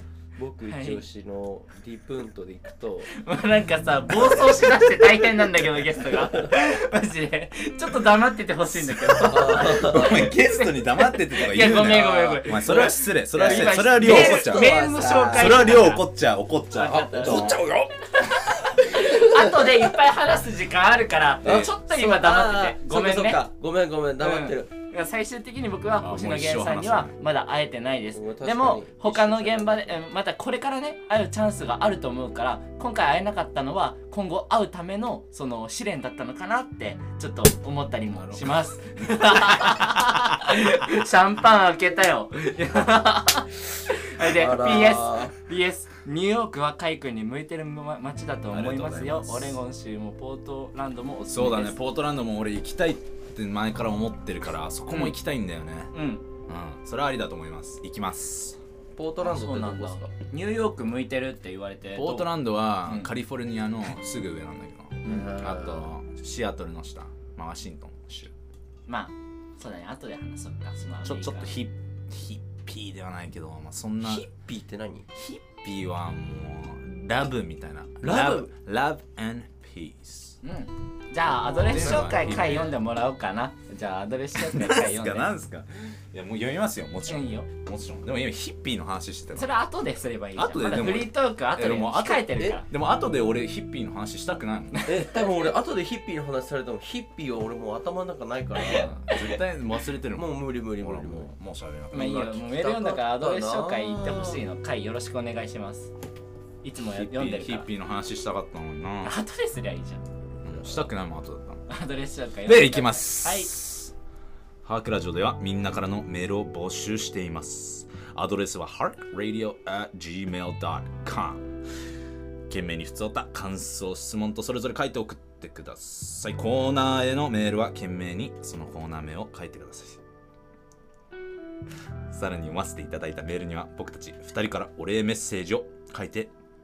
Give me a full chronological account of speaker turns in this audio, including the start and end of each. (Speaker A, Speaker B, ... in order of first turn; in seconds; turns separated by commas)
Speaker A: 0.3-3.1, Speaker B: 0.7-1.0, Speaker B: 3.1-16.0, Speaker A: 6.1-6.5, Speaker C: 9.1-17.7, Speaker A: 9.2-10.3, Speaker A: 12.3-15.7, Speaker B: 16.7-17.6, Speaker A: 16.9-18.0, Speaker B: 18.1-23.4, Speaker A: 18.9-19.8, Speaker A: 21.4-24.7, Speaker B: 24.2-51.8, Speaker C: 26.0-27.1, Speaker A: 28.1-30.0, Speaker C: 38.1-39.9, Speaker A: 44.2-45.3, Speaker C: 48.5-49.6, Speaker C: 51.3-55.9, Speaker B: 54.9-55.2, Speaker B: 55.9-56.2, Speaker C: 56.5-58.6, Speaker A: 59.0-60.1, Speaker B: 59.2-62.3, Speaker C: 61.9-68.3, Speaker B: 62.8-63.1, Speaker A: 65.0-65.9, Speaker B: 68.9-71.5, Speaker C: 71.0-74.2, Speaker A: 74.0-75.1, Speaker C: 75.4-80.4, Speaker A: 78.0-78.5, Speaker B: 80.4-85.3, Speaker A: 81.5-82.7, Speaker C: 81.7-82.7, Speaker C: 84.4-89.5, Speaker B: 87.1-87.5, Speaker B: 89.3-92.7, Speaker C: 90.3-94.9, Speaker B: 94.7-95.0, Speaker A: 94.8-99.0, Speaker B: 98.6-99.3, Speaker C: 98.7-102.3, Speaker A: 100.1-101.3, Speaker A: 101.9-104.4, Speaker B: 101.9-105.9, Speaker B: 106.6-107.7, Speaker C: 106.8-109.1, Speaker B: 109.0-110.0, Speaker C: 110.4-111.6, Speaker A: 110.5-110.8, Speaker B: 111.7-113.5, Speaker C: 112.5-113.9, Speaker C: 114.6-121.5, Speaker C: 122.5-130.0, Speaker C: 132.1-136.3